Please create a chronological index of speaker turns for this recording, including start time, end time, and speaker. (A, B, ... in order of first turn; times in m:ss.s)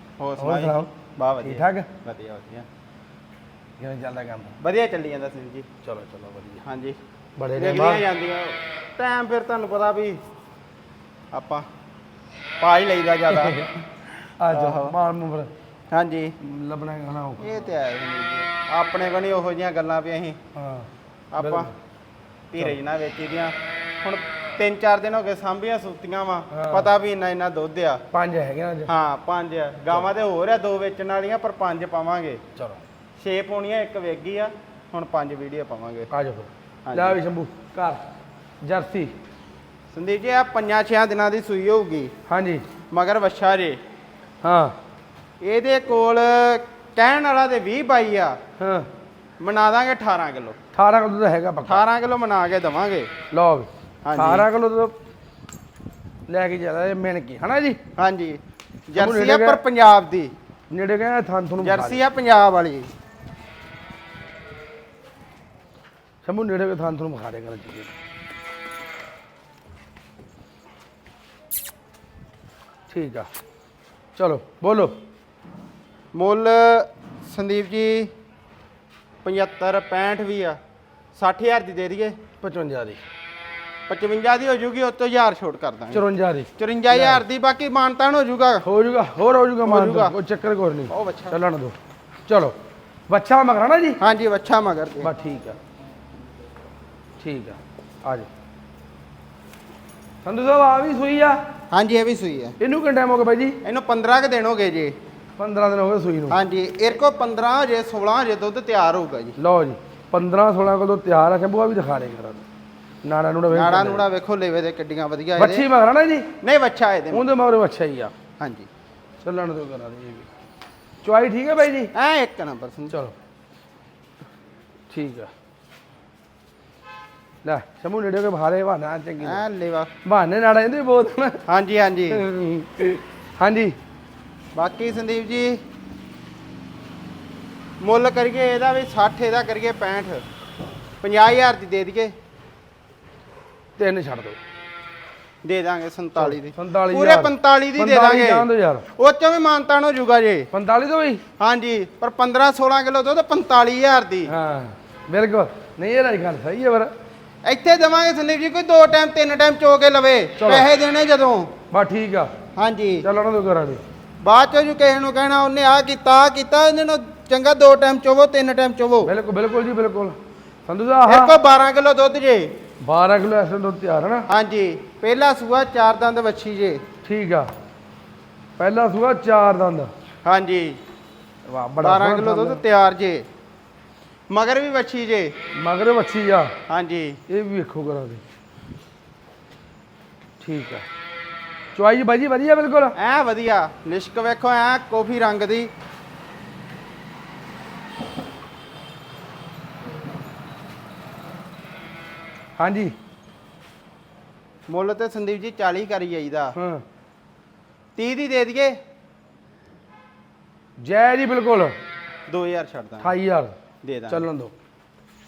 0:00.2-0:02.7 A
0:00.4-0:00.9 B
0:01.4-0:01.9 B
0:03.8-0:04.6 B
0:04.6-0:05.7 A
0:05.8-0:06.6 B
0:06.6-0:07.0 A
0:07.4-0:08.0 B
0:07.6-0:10.2 A
0:11.3-0:11.7 A
0:12.6-0:13.7 A
0:13.3-0:13.7 B
0:14.4-0:15.5 B
0:14.5-0:14.9 A
0:15.9-0:16.3 A
0:16.4-0:17.7 B
0:17.4-0:20.4 A
0:20.6-0:20.9 B
0:21.3-0:21.7 A
0:21.4-0:21.7 B
0:22.5-0:28.0 A
0:26.5-0:26.9 B
0:28.1-0:28.9 B
0:28.9-0:32.4 A
0:33.2-0:36.1 A
0:36.1-0:38.0 B
0:36.8-0:37.2 A
0:38.6-0:39.1 B
0:39.9-0:42.1 A
0:42.3-0:42.6 B
0:42.9-0:43.8 A
0:44.4-0:44.7 B
0:45.4-0:48.4 A
0:48.6-0:48.9 B
0:49.4-0:50.6 A
0:50.7-0:51.8 B
0:51.7-0:53.1 A
0:53.3-0:54.9 B
0:54.0-0:54.5 A
0:56.3-0:57.8 B
0:58.0-1:00.3 A
0:59.0-0:59.6 B
1:00.7-1:02.0 B
1:01.6-1:02.9 A
1:06.2-1:07.9 B
1:12.9-1:13.3 B
1:14.2-1:15.0 B
1:16.1-1:18.1 A
1:19.2-1:20.6 A
1:21.1-1:22.2 A
1:22.4-1:23.0 B
1:23.9-1:26.0 A
1:25.9-1:27.2 B
1:26.6-1:28.6 A
1:28.6-1:31.7 B
1:29.6-1:30.1 A
1:30.9-1:31.4 A
1:32.2-1:32.5 B
1:33.1-1:34.0 B
1:34.0-1:35.1 A
1:35.0-1:35.6 B
1:37.2-1:38.3 B
1:40.2-1:41.4 B
1:41.7-1:42.6 A
1:42.6-1:43.6 B
1:43.6-1:44.9 A
1:45.4-1:46.4 B
1:46.3-1:49.4 A
1:49.4-1:52.4 B
1:53.0-1:54.0 B
1:53.5-1:55.7 A
1:55.4-1:56.3 B
1:56.4-1:57.2 A
1:57.1-1:58.1 B
1:58.4-1:58.7 A
1:59.2-2:00.3 B
2:01.0-2:01.9 B
2:01.9-2:02.9 A
2:04.9-2:05.3 B
2:07.4-2:09.4 B
2:09.2-2:09.9 A
2:10.0-2:11.4 B
2:11.4-2:12.2 A
2:12.1-2:13.8 B
2:14.6-2:15.6 A
2:17.8-2:20.2 A
2:21.0-2:22.1 A
2:23.8-2:24.4 B
2:25.4-2:30.5 A
2:26.2-2:28.8 B
2:30.5-2:31.2 B
2:31.4-2:34.3 A
2:34.3-2:36.9 B
2:37.4-2:41.5 A
2:40.4-2:40.7 B
2:41.7-2:42.3 B
2:42.6-2:43.0 A
2:43.0-2:43.8 B
2:44.2-2:49.1 A
2:49.0-2:51.3 B
2:51.0-2:52.5 A
2:52.8-2:54.2 B
2:54.3-2:56.8 A
2:57.0-2:57.5 B
2:58.6-2:59.9 B
3:00.2-3:00.8 A
3:01.5-3:02.6 B
3:01.8-3:03.2 A
3:04.3-3:05.3 A
3:05.6-3:06.5 B
3:06.7-3:07.2 A
3:07.3-3:08.2 B
3:10.4-3:10.8 B
3:11.7-3:12.9 B
3:13.0-3:15.7 A
3:22.6-3:22.9 B
3:24.7-3:26.5 A
3:26.6-3:26.8 B
3:28.0-3:28.8 A
3:30.8-3:31.8 B
3:32.3-3:33.1 A
3:33.0-3:33.5 B
3:33.8-3:34.2 A
3:34.1-3:34.5 B